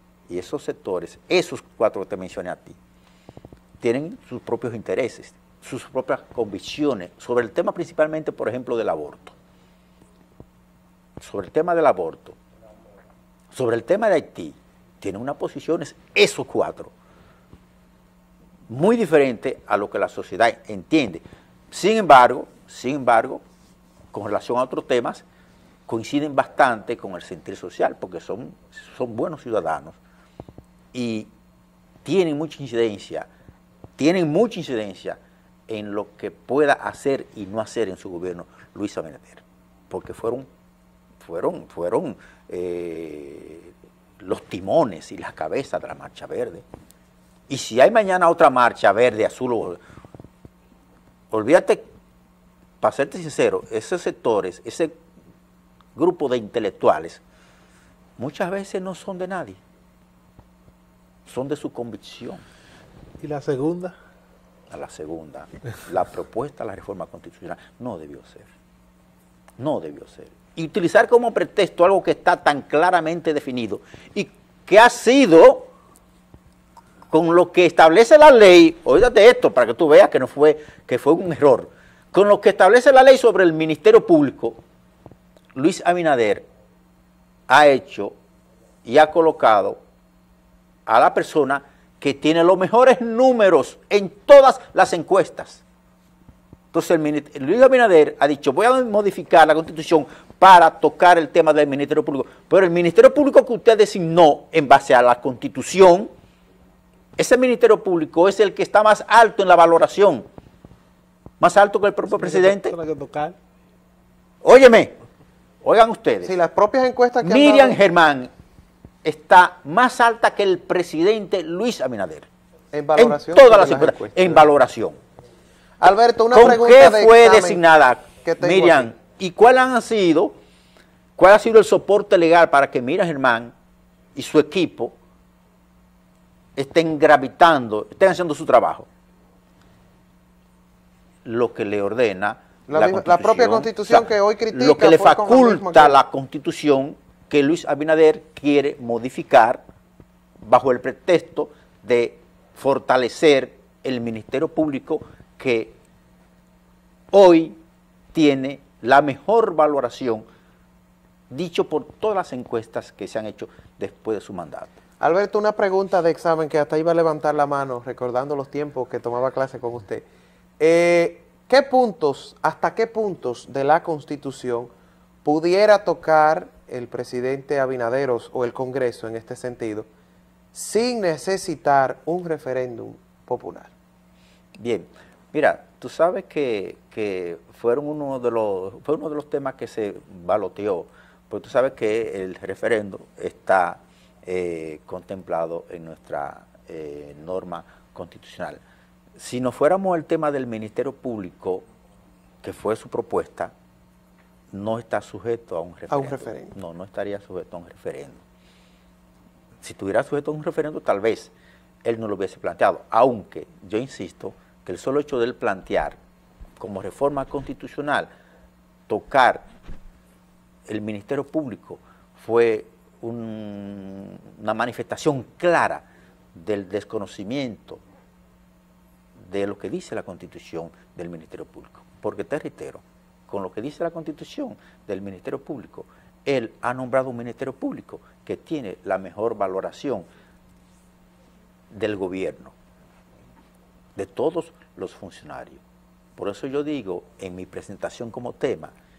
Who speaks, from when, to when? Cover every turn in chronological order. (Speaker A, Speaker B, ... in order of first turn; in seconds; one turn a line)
Speaker A: 0.3-2.8
Speaker A: 3.8-9.3
Speaker A: 11.2-12.4
Speaker A: 13.5-16.9
Speaker A: 18.7-23.4
Speaker A: 24.1-25.2
Speaker A: 25.9-30.0
Speaker A: 30.9-31.3
Speaker A: 32.0-33.3
Speaker A: 34.0-40.5
Speaker A: 41.2-46.6
Speaker A: 47.5-49.8
Speaker A: 51.3-51.9
Speaker A: 52.8-55.0
Speaker A: 56.0-57.2
Speaker A: 58.2-59.6
Speaker A: 61.2-62.4
Speaker B: 63.2-63.9
Speaker A: 64.7-68.5
Speaker A: 69.6-75.7
Speaker A: 77.1-84.6
Speaker A: 85.5-86.5
Speaker A: 87.5-88.2
Speaker A: 88.8-89.8
Speaker A: 90.9-95.6
Speaker A: 96.7-106.1
Speaker A: 107.2-110.2
Speaker A: 111.4-112.8
Speaker B: 112.1-113.3
Speaker A: 114.4-114.9
Speaker A: 115.6-116.3
Speaker C: 116.2-117.8
Speaker A: 117.2-118.3
Speaker A: 119.0-122.3
Speaker C: 122.7-124.5
Speaker A: 122.9-125.0
Speaker C: 125.8-127.6
Speaker A: 126.3-130.3
Speaker C: 128.2-128.9
Speaker A: 131.2-133.5
Speaker A: 134.1-135.0
Speaker A: 136.5-138.9
Speaker A: 141.2-149.6
Speaker C: 142.7-146.0
Speaker A: 150.4-155.8
Speaker A: 157.1-157.6
Speaker A: 158.1-160.2
Speaker A: 161.3-164.8
Speaker C: 165.0-170.1
Speaker C: 170.6-174.7
Speaker C: 175.2-179.9
Speaker C: 180.5-183.7
Speaker A: 184.6-198.6
Speaker A: 199.2-201.6
Speaker A: 202.4-203.5
Speaker A: 204.5-208.2
Speaker C: 205.9-206.5
Speaker A: 209.6-211.3
Speaker A: 211.8-216.0
Speaker A: 216.6-218.1
Speaker A: 218.9-219.4
Speaker A: 220.7-227.8
Speaker A: 229.2-240.1
Speaker A: 241.7-242.5
Speaker A: 243.9-245.6
Speaker A: 246.2-248.7